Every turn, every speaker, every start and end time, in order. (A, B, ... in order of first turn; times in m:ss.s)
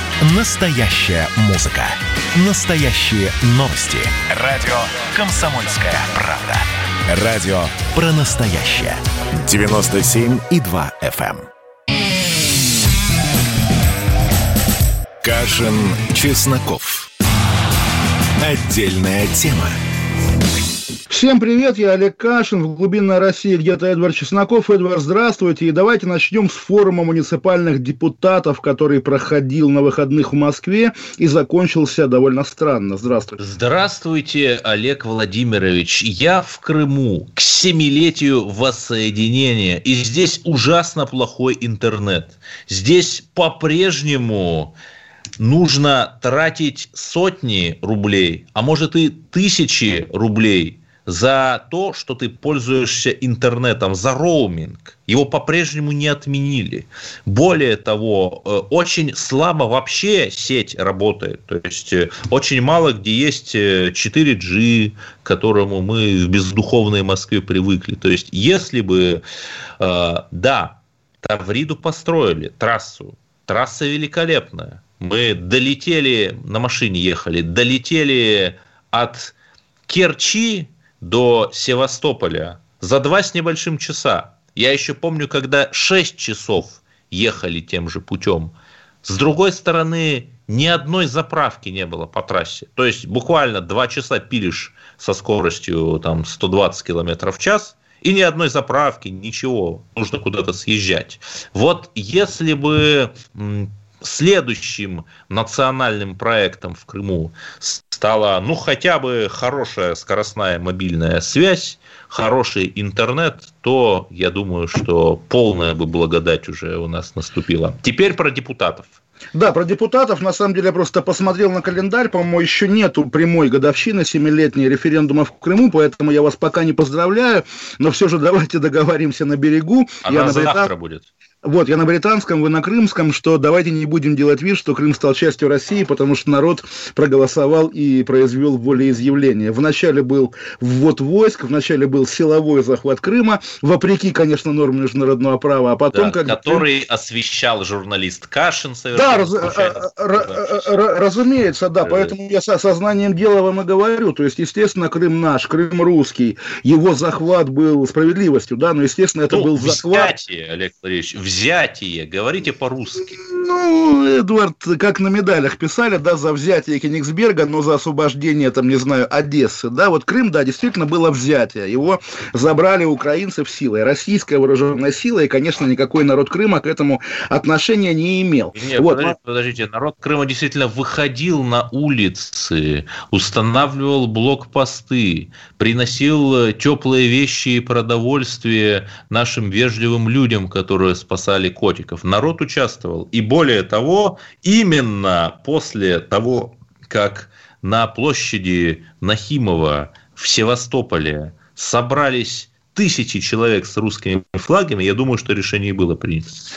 0:00.2-0:11.5 A
0:15.2-0:17.1 A
0:18.4-0:19.8 A
0:21.1-0:33.4 B
0:33.4-0:44.7 C
0:45.4-1:09.2 C
1:09.8-1:19.3 C
1:19.9-1:28.5 C
1:29.0-1:58.9 C
1:59.3-2:10.7 B
2:10.0-2:11.1 C
2:11.4-2:26.6 B
2:25.9-2:30.7 C
2:28.9-2:40.1 B
2:31.8-2:32.2 C
2:39.3-2:43.1 C
2:43.2-2:59.2 B
2:58.5-3:26.4 C